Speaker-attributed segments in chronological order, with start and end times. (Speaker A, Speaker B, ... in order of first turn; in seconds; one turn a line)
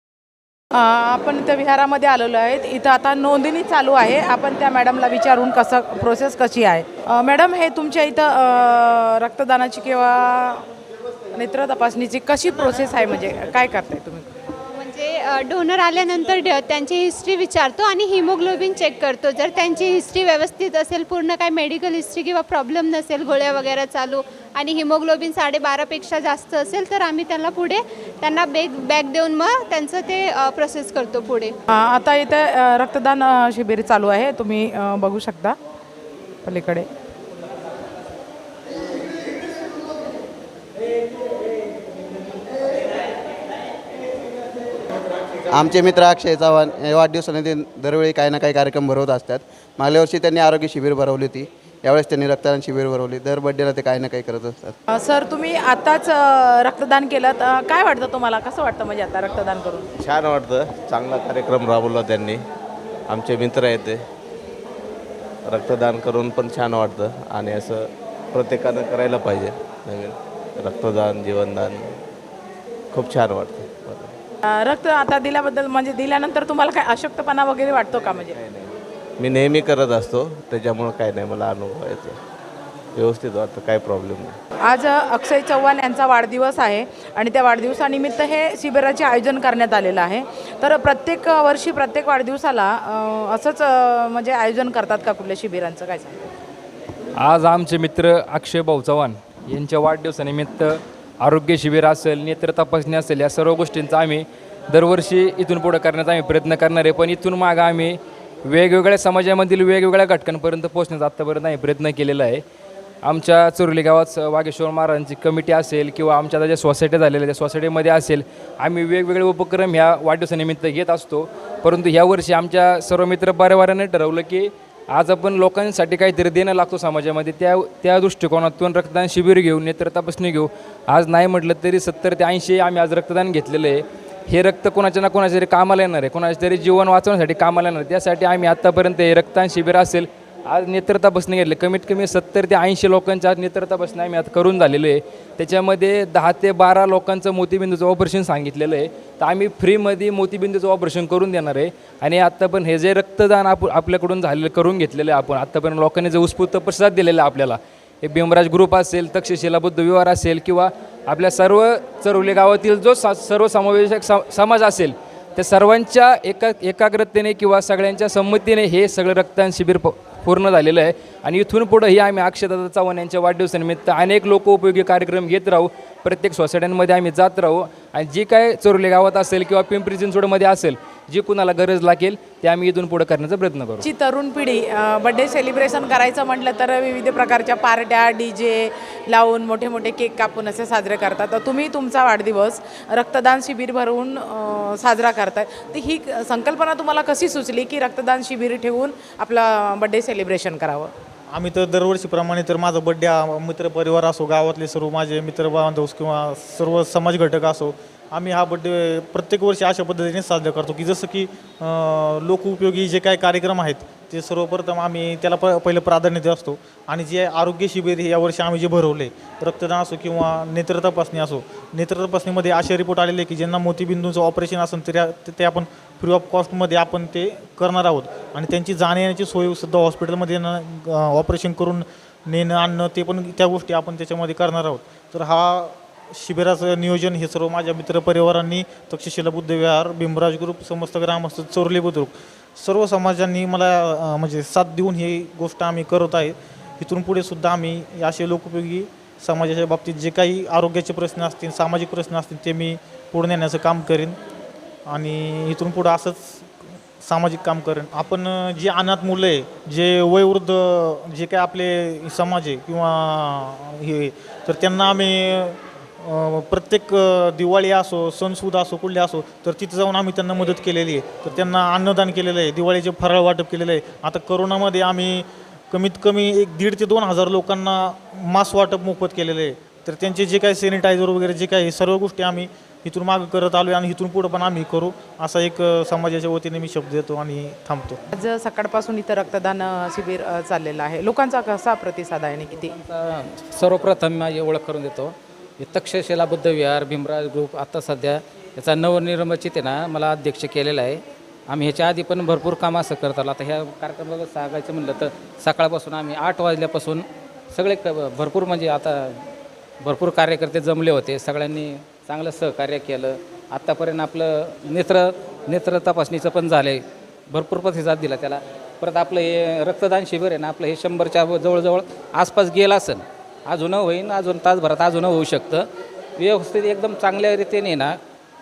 Speaker A: 0.7-10.6
Speaker A: 11.3-14.3
Speaker B: 14.7-31.6
Speaker A: 31.7-35.6
Speaker A: 36.4-36.9
Speaker C: 45.6-51.4
Speaker D: 45.7-54.7
Speaker C: 52.0-54.6
Speaker A: 54.9-59.9
Speaker D: 60.0-62.4
Speaker D: 63.1-64.0
Speaker D: 65.5-71.9
Speaker D: 72.9-74.1
Speaker A: 74.5-78.4
Speaker D: 78.5-82.2
Speaker D: 83.0-84.3
Speaker A: 84.7-96.3
Speaker E: 97.2-112.4
Speaker E: 113.0-183.9
Speaker A: 183.8-200.9
Speaker F: 201.3-254.2
Speaker F: 254.9-288.0
Speaker A: 288.1-292.7
Speaker G: 292.5-309.2
Speaker G: 309.8-325.7
Speaker G: 326.2-328.0